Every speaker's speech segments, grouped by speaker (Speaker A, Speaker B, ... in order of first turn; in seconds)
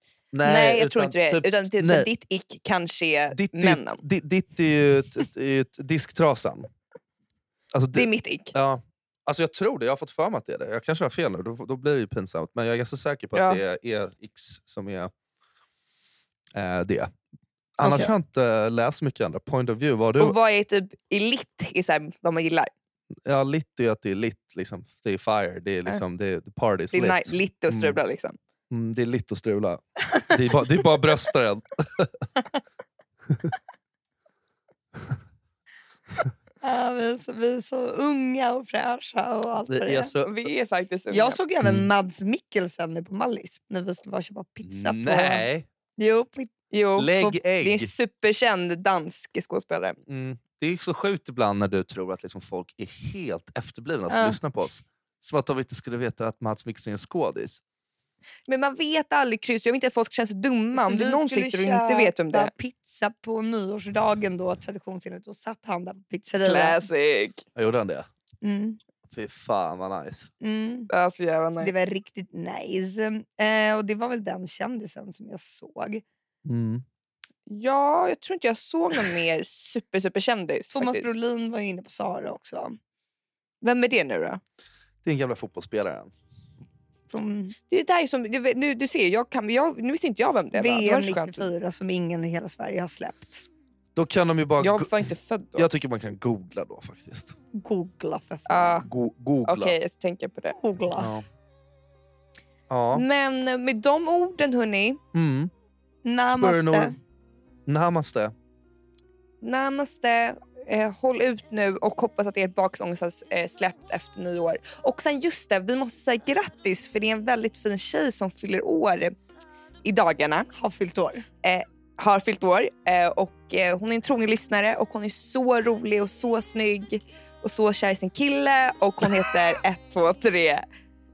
Speaker A: 0.3-2.1, 3.3-6.7, 7.7-15.1, 16.5-17.1, 17.8-20.4, 23.2-28.0, 28.7-32.2, 39.7-40.3, 41.6-41.9, 44.6-45.7, 47.0-47.9, 50.1-57.6, 67.5-68.1, 69.1-70.3, 76.5-76.8, 85.0-86.1, 93.9-95.0, 95.5-97.3, 98.8-99.8, 101.0-101.2, 102.7-103.0, 105.1-105.5, 106.3-106.9, 107.7-108.3
Speaker B: 0.4-4.0, 7.9-8.5, 17.8-18.1, 20.2-22.7, 26.9-28.4, 40.2-41.4, 46.7-50.0, 58.5-62.5, 66.4-67.4, 70.9-71.7, 77.5-81.1, 83.6-84.4, 87.7-91.5, 94.6-95.7, 98.5-98.8, 99.5-100.5, 102.9-105.0, 109.4-119.1, 119.8-120.5, 121.4-130.6
Speaker C: 36.6-40.1, 41.1-45.5, 46.0-46.6, 54.1-54.4, 60.7-66.8, 68.4-68.8, 70.4-70.9, 71.6-76.0, 80.7-82.8, 87.1-87.5, 90.5-93.4, 97.5-98.9, 100.5-101.1, 106.0-107.0, 120.5-121.2